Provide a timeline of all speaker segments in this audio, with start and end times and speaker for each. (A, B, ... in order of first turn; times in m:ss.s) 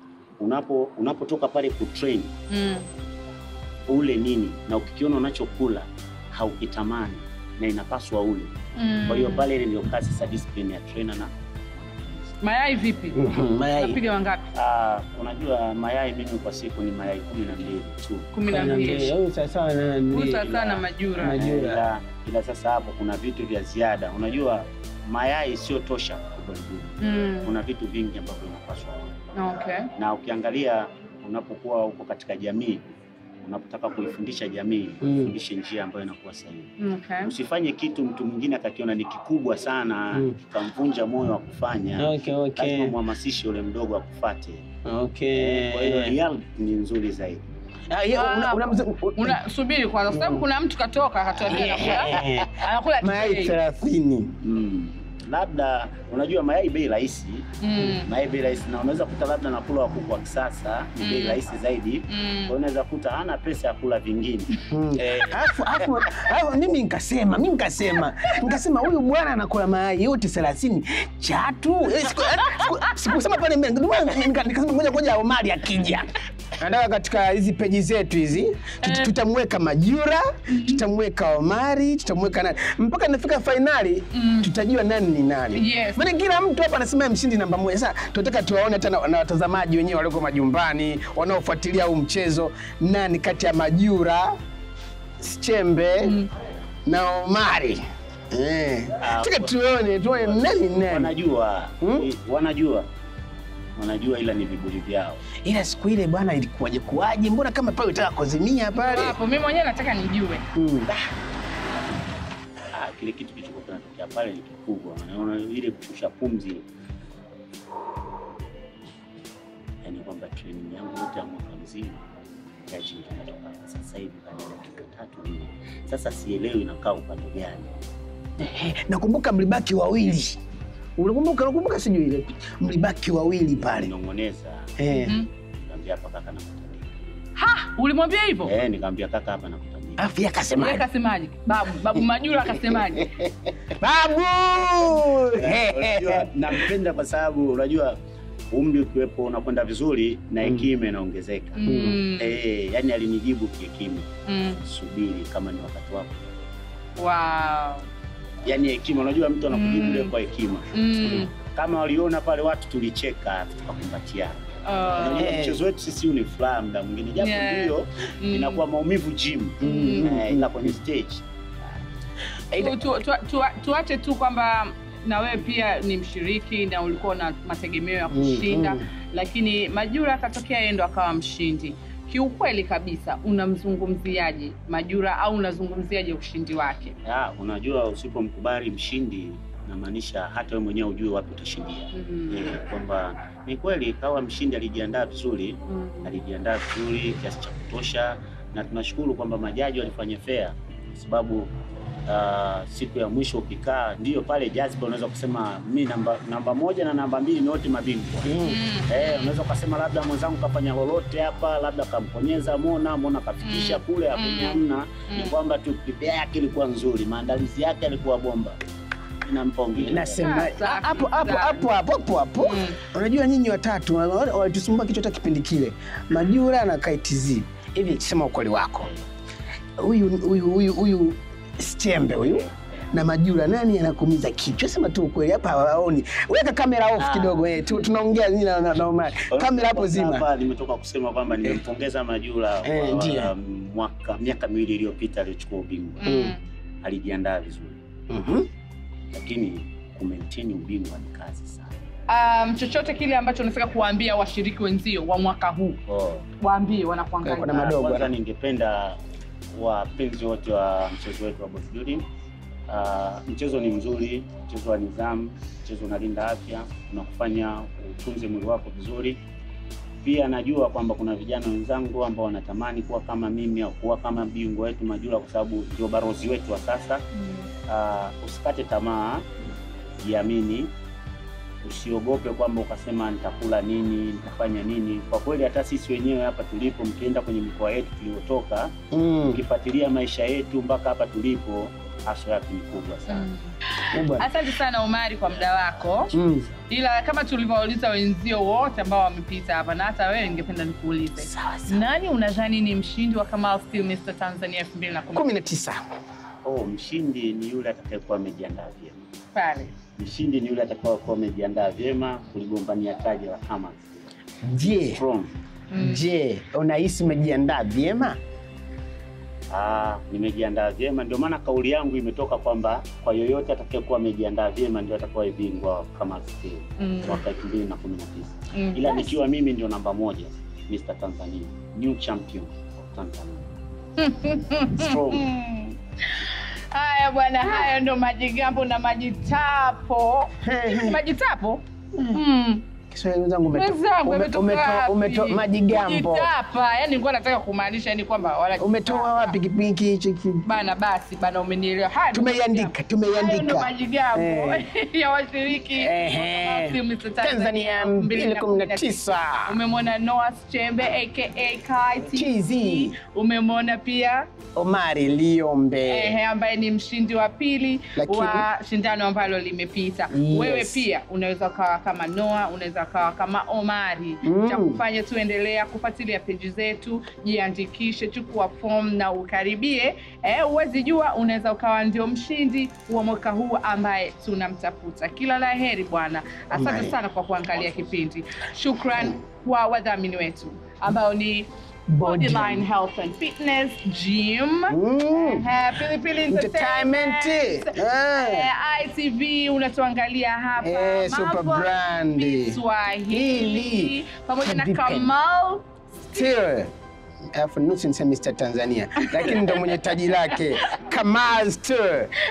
0:00.4-0:02.3 A
0:02.5-0:02.8 B
0:03.9-0:12.4 A
0:08.8-0:09.5 B
0:12.4-0:13.2 B
0:13.1-0:14.0 C
0:13.7-0:14.4 B
0:14.5-0:18.3 A
0:18.3-0:19.1 B
0:18.5-0:20.5 C
0:20.1-0:21.4 B
0:20.3-0:29.2 A
0:21.2-0:21.8 C
0:27.0-0:27.5 B
0:29.4-0:29.9 B
0:30.0-0:32.8 A
0:33.4-0:36.7 A
0:35.0-0:35.3 C
0:36.8-0:37.3 B
0:37.2-0:44.7 A
0:42.0-0:43.0 C
0:44.8-0:46.2 C
0:45.3-0:47.5 A
0:47.9-0:49.4 C
0:48.1-0:53.6 B
0:50.1-0:50.5 C
0:51.5-0:54.4 C
0:54.4-1:05.6 A
0:57.6-0:58.1 B
1:01.0-1:01.4 B
1:02.1-1:02.5 B
1:04.7-1:16.1 C
1:12.4-1:12.9 B
1:16.6-1:34.4 C
1:18.8-1:19.1 B
1:20.5-1:20.8 B
1:24.1-1:24.5 B
1:25.5-1:26.1 B
1:35.2-1:36.2 C
1:36.0-1:36.3 B
1:36.9-1:41.1 C
1:39.0-1:39.6 A
1:40.1-1:42.9 A
1:41.8-1:42.1 C
1:43.8-1:45.2 A
1:45.4-1:49.2 C
1:48.8-1:50.5 B
1:50.6-1:50.9 C
1:52.7-1:56.6 A
1:59.8-2:02.0 A
2:02.7-2:07.7 A
2:08.4-2:10.4 C
2:11.0-2:13.9 C
2:13.6-2:14.7 A
2:14.8-2:15.2 C
2:14.9-2:15.3 B
2:15.6-2:16.9 A
2:17.4-2:18.5 B
2:18.4-2:20.0 A
2:20.0-2:20.9 C
2:20.6-2:23.1 B
2:23.8-2:26.7 C
2:25.3-2:28.0 A
2:28.5-2:34.1 A
2:31.6-2:32.4 B
2:31.6-2:32.0 C
2:34.3-2:34.6 B
2:34.6-2:36.3 A
2:37.0-2:37.8 B
2:38.4-2:44.4 A
2:39.5-2:40.1 B
2:40.7-2:41.3 B
2:44.6-2:45.4 B
2:45.0-2:51.2 A
2:45.2-2:45.6 C
2:47.2-2:48.6 B
2:49.6-2:50.1 B
2:49.6-2:50.7 C
2:52.6-3:07.0 B
2:58.1-2:58.9 C
3:07.0-3:21.5 A
3:11.9-3:12.6 B
3:15.7-3:16.1 B
3:22.1-3:38.6 A
3:28.2-3:28.6 C
3:28.4-3:29.4 B
3:33.4-3:35.4 B
3:39.2-3:40.2 A
3:39.8-3:48.9 C
3:40.2-3:41.6 B
3:42.4-3:42.8 B
3:49.8-4:00.3 C
3:52.2-3:52.9 A
3:57.0-3:57.5 A
3:59.2-4:06.0 A
4:02.6-4:03.3 C
4:06.0-4:06.4 B
4:06.0-4:06.3 C
4:06.8-4:07.8 A
4:08.1-4:08.5 C
4:09.1-4:11.8 A
4:12.1-4:15.8 B
4:15.9-4:16.3 A
4:16.4-4:17.6 B
4:17.2-4:18.1 C
4:17.4-4:19.0 A
4:19.5-4:22.0 A
4:22.7-4:29.2 A
4:30.0-4:37.0 A
4:37.2-4:37.5 B
4:37.7-4:39.3 A
4:40.0-4:40.7 A
4:41.6-4:48.7 A
4:48.9-4:49.4 C
4:49.3-4:53.3 A
4:53.1-4:56.1 B
4:53.9-4:54.3 C
4:55.3-4:56.6 A
4:56.1-4:56.5 C
4:56.7-5:05.3 B
5:01.2-5:01.8 A
5:05.1-5:05.8 C
5:06.4-5:09.1 A
5:09.3-5:09.7 B
5:10.0-5:14.0 A
5:14.4-5:15.0 C
5:14.8-5:15.3 A
5:15.7-5:16.0 B
5:15.8-5:18.2 C
5:19.5-5:33.5 A
5:26.8-5:27.2 B
5:28.5-5:29.2 B
5:34.0-5:41.6 B
5:34.7-5:35.3 A
5:40.4-5:41.0 C
5:42.0-5:42.2 C
5:42.1-5:42.6 B
5:42.9-5:46.3 C
5:43.5-5:49.4 B
5:48.6-5:50.5 C
5:50.4-6:04.3 B
5:52.1-5:54.6 C
5:55.8-5:59.6 C
6:02.1-6:03.0 C
6:04.6-6:06.2 C
6:05.9-6:31.5 B
6:08.0-6:08.5 C
6:10.1-6:10.9 C
6:14.2-6:14.8 C
6:26.5-6:26.9 C
6:31.9-6:32.7 C
6:32.0-6:46.2 B
6:34.7-6:35.5 C
6:36.3-6:38.5 C
6:40.6-6:42.6 C
6:43.1-6:45.1 C
6:46.1-6:46.7 C
6:47.3-6:52.1 C
6:49.0-6:50.7 B